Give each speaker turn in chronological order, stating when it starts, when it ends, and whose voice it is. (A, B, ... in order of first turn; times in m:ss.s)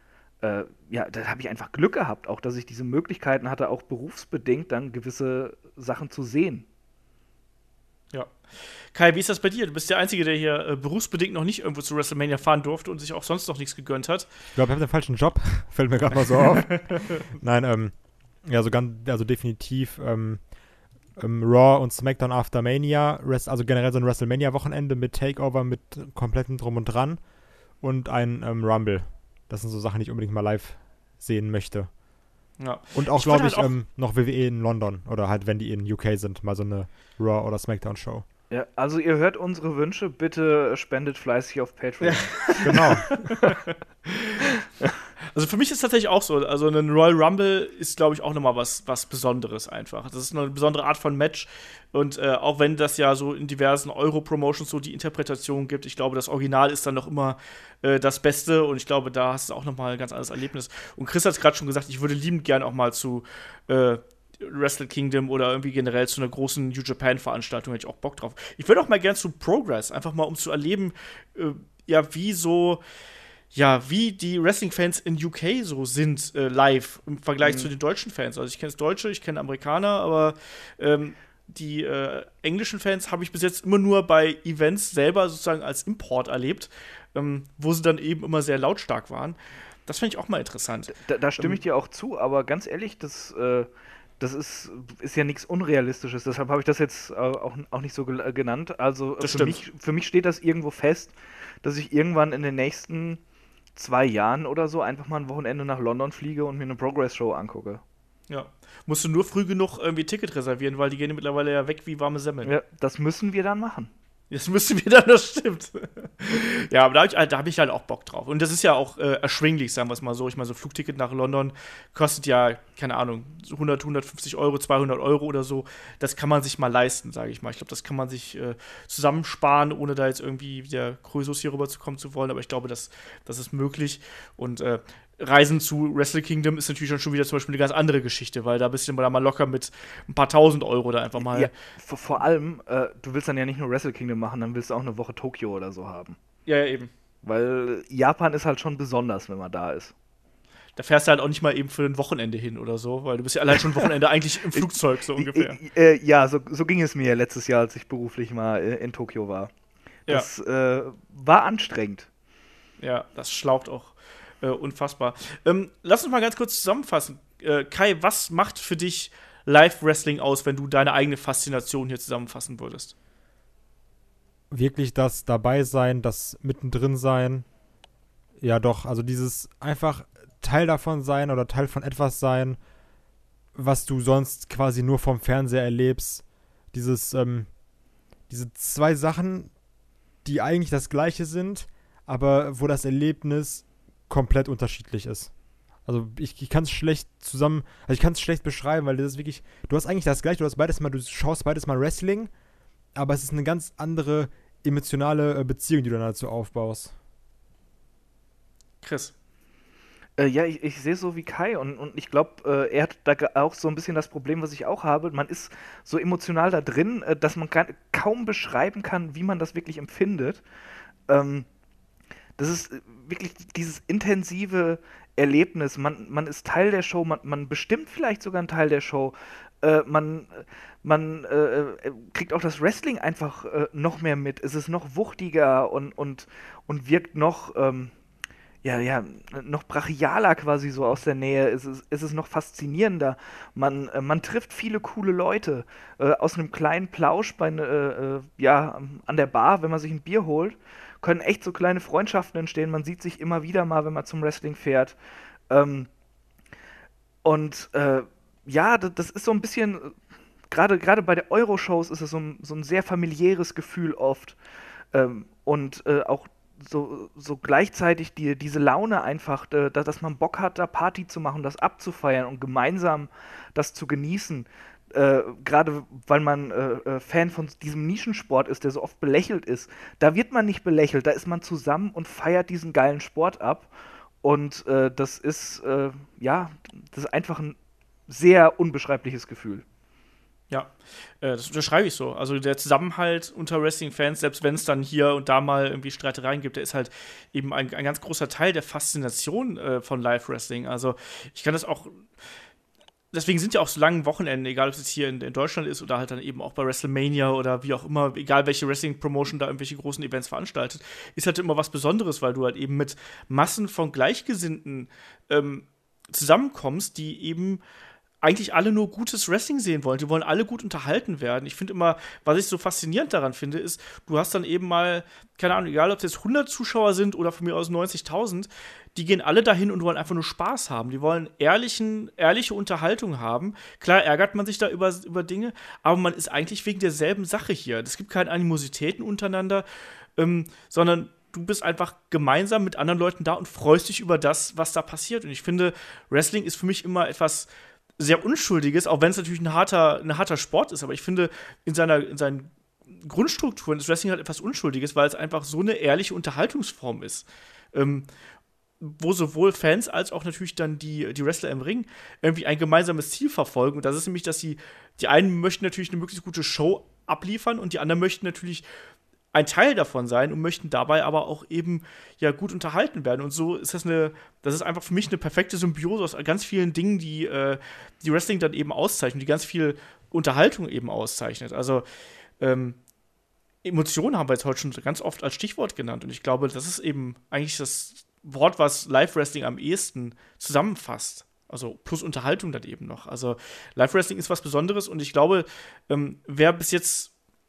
0:00.4-0:06.6 A
0:08.1-0:14.3 B
0:14.6-0:20.4 C
0:21.2-0:27.2 C
0:27.8-0:31.9 C
0:32.6-0:33.7 B
0:33.0-0:38.2 C
0:38.5-0:43.5 A
0:42.0-0:43.8 B
0:42.6-0:43.0 C
0:45.3-1:12.8 B
1:13.5-1:31.6 B
1:17.4-1:17.7 A
1:30.9-1:33.7 A
1:34.2-1:43.2 A
1:39.2-1:39.6 B
1:43.8-1:47.8 A
1:48.3-1:52.5 B
1:52.4-1:53.9 A
1:54.3-2:21.5 B
2:21.2-2:26.2 A
2:26.5-2:26.9 B
2:27.2-2:29.9 A
2:30.8-2:35.6 B
2:34.5-2:39.5 A
2:40.1-2:42.1 A
2:42.8-2:52.9 B
2:54.5-2:57.5 C
2:58.4-3:02.6 C
3:03.6-3:07.5 C
3:08.3-3:09.5 C
3:10.2-3:15.3 C
3:15.9-3:22.3 C
3:23.0-3:26.9 C
3:28.8-3:29.1 B
3:30.2-3:40.4 A
3:41.1-3:41.5 A
3:42.4-3:57.9 A
3:58.6-4:15.0 A
4:15.5-4:15.9 A
4:17.2-4:20.0 A
4:20.5-4:24.4 A
4:24.9-4:43.7 A
4:44.2-4:47.6 A
4:48.1-4:49.6 A
4:50.5-5:02.0 B
5:03.1-5:17.6 B
5:18.2-5:39.6 B
5:40.2-5:47.5 B
5:48.0-5:58.1 B
5:58.8-6:08.6 B
6:09.3-6:21.8 B
6:22.4-6:22.8 B
6:23.6-6:37.1 B